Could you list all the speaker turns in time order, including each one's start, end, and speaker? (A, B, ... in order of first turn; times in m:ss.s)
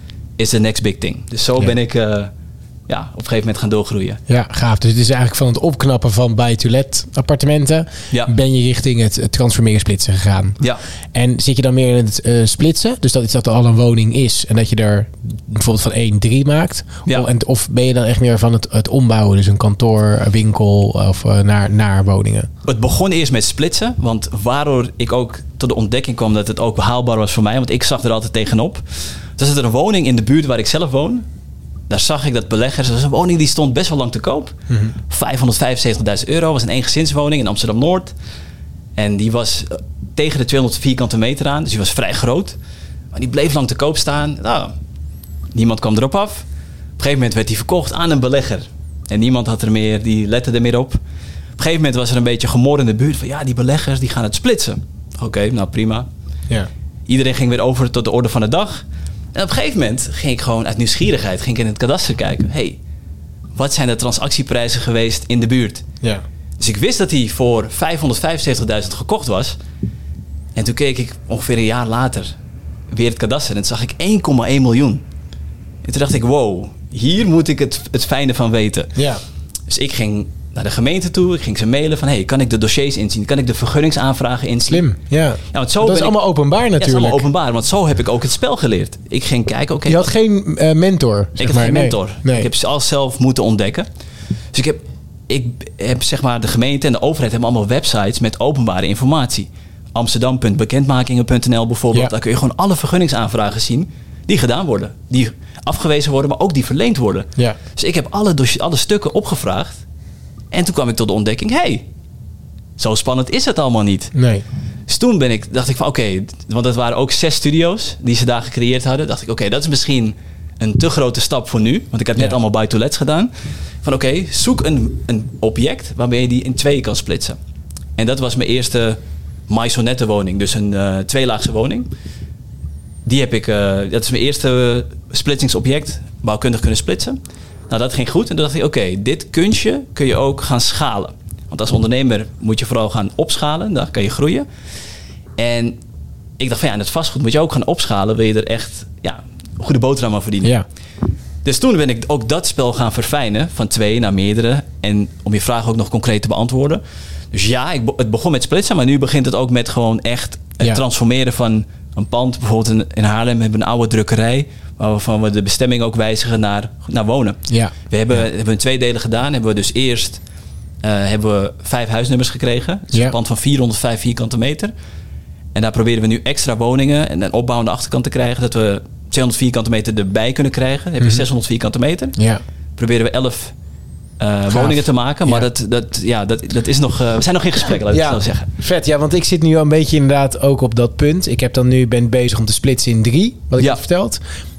0:00.4-0:02.3 A
0:02.9-0:04.2 A
0:04.3-0:10.6 B
0:11.1-0:22.5 B
0:22.6-0:31.2 A
0:31.9-0:34.5 A
0:35.1-0:38.1 A
0:39.0-0:42.6 A
0:43.1-0:44.7 A
0:45.5-0:46.4 A
0:47.0-0:51.0 A
0:51.6-0:56.1 A
0:57.1-1:02.8 A
1:03.6-1:05.8 A
1:06.6-1:09.6 A
1:10.5-1:12.3 A
1:12.9-1:15.0 A
1:15.8-1:19.0 A
1:19.0-1:19.2 B
1:19.7-1:24.8 A
1:24.7-1:27.2 B
1:25.5-1:26.2 A
1:26.8-1:30.1 A
1:29.9-1:32.5 B
1:31.4-1:33.8 A
1:34.5-1:49.8 A
1:50.5-1:51.8 A
1:52.8-1:54.1 A
1:54.1-1:54.4 B
1:54.9-2:03.3 A
2:03.8-2:07.4 A
2:08.0-2:11.9 A
2:13.0-2:17.2 A
2:17.7-2:24.4 A
2:25.4-2:25.8 A
2:26.4-2:30.5 A
2:31.4-2:36.8 A
2:37.3-2:50.2 A
2:47.5-2:48.2 B
2:50.8-2:54.7 A
2:55.5-3:02.2 A
3:02.2-3:02.4 B
3:02.8-3:03.5 A
3:04.2-3:08.5 A
3:04.5-3:05.5 B
3:07.9-3:14.2 B